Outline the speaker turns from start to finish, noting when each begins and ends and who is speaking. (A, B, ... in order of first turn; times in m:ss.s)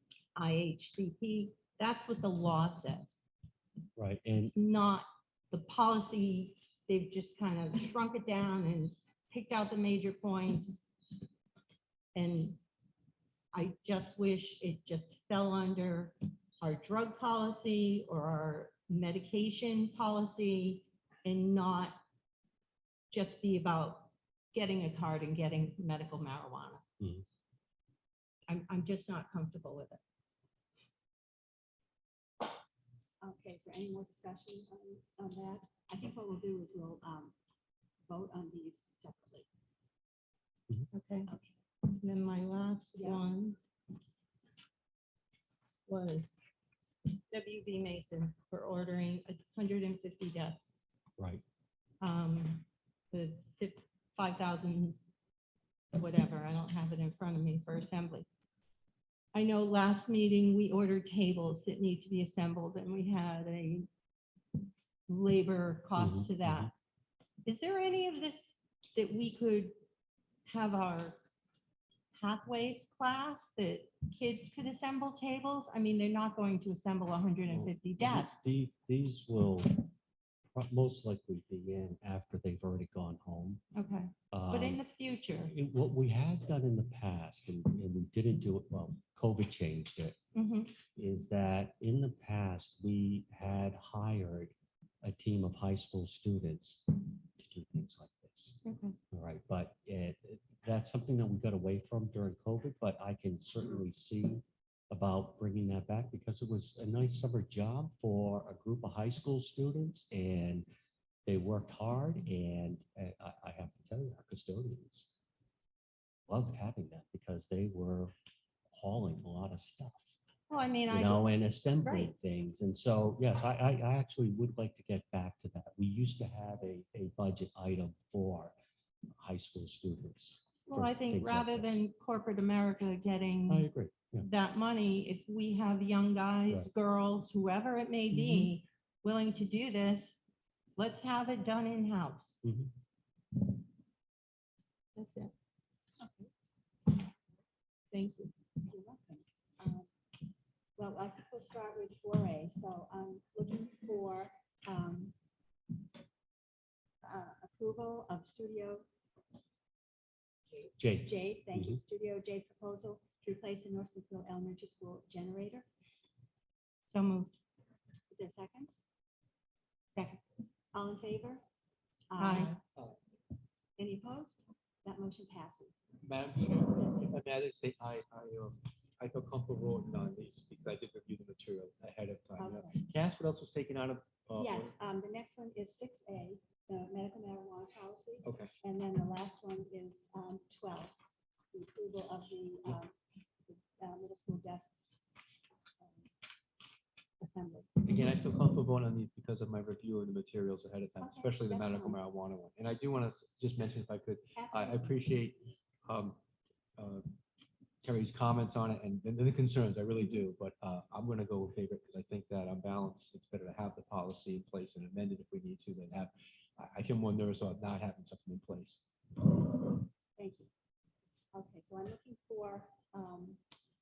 0:00.4-0:03.2 A
0:04.0-0:04.5 B
0:04.4-0:10.9 A
0:12.1-0:12.6 A
0:13.5-0:22.0 A
0:23.1-0:26.8 A
0:28.5-0:30.0 A
0:33.2-0:37.3 C
0:38.1-0:39.5 C
0:40.9-0:41.3 A
0:41.3-0:41.5 C
0:41.8-0:43.6 A
0:42.9-0:43.2 C
0:45.9-0:46.5 A
0:47.3-0:50.8 A
0:51.2-0:51.4 B
0:52.0-0:55.0 A
0:55.9-0:58.3 A
0:59.3-1:03.9 A
1:05.1-1:06.7 A
1:06.0-1:06.7 B
1:07.4-1:09.8 A
1:10.4-1:11.2 A
1:12.1-1:18.5 A
1:17.5-1:19.9 B
1:20.5-1:23.6 B
1:23.7-1:25.5 A
1:24.3-1:24.8 B
1:25.3-1:30.2 B
1:30.3-1:30.7 A
1:30.9-1:38.6 B
1:38.6-1:39.0 A
1:39.1-1:50.6 B
1:51.2-1:55.1 B
1:56.3-1:58.1 B
1:58.7-2:00.0 B
2:00.5-2:02.1 A
2:00.9-2:08.5 B
2:09.1-2:11.9 B
2:10.6-2:13.6 A
2:13.5-2:14.3 B
2:14.2-2:20.2 A
2:18.1-2:18.5 B
2:20.8-2:22.4 A
2:22.4-2:22.7 B
2:25.0-2:25.3 A
2:26.0-2:26.3 C
2:27.9-2:28.3 A
2:28.6-2:29.9 C
2:30.8-2:35.1 C
2:37.0-2:38.8 C
2:40.8-2:41.8 B
2:41.0-2:45.7 C
2:46.9-2:47.3 A
2:48.1-2:48.8 C
2:49.9-2:50.2 A
2:50.7-2:51.4 C
2:52.1-2:52.5 C
2:52.2-2:52.6 A
2:52.5-2:53.0 D
2:53.8-2:55.8 C
2:56.0-3:04.7 D
2:56.7-2:57.1 C
3:02.4-3:02.8 C
3:04.3-3:10.9 C
3:08.2-3:08.5 D
3:11.5-3:12.9 C
3:13.5-3:15.0 C
3:15.8-3:16.1 C
3:17.2-3:17.8 C
3:17.8-3:26.2 D
3:21.0-3:22.0 C
3:24.4-3:25.0 C
3:26.8-3:27.1 D
3:27.8-3:38.8 D
3:40.2-3:40.5 C
3:41.3-3:43.4 C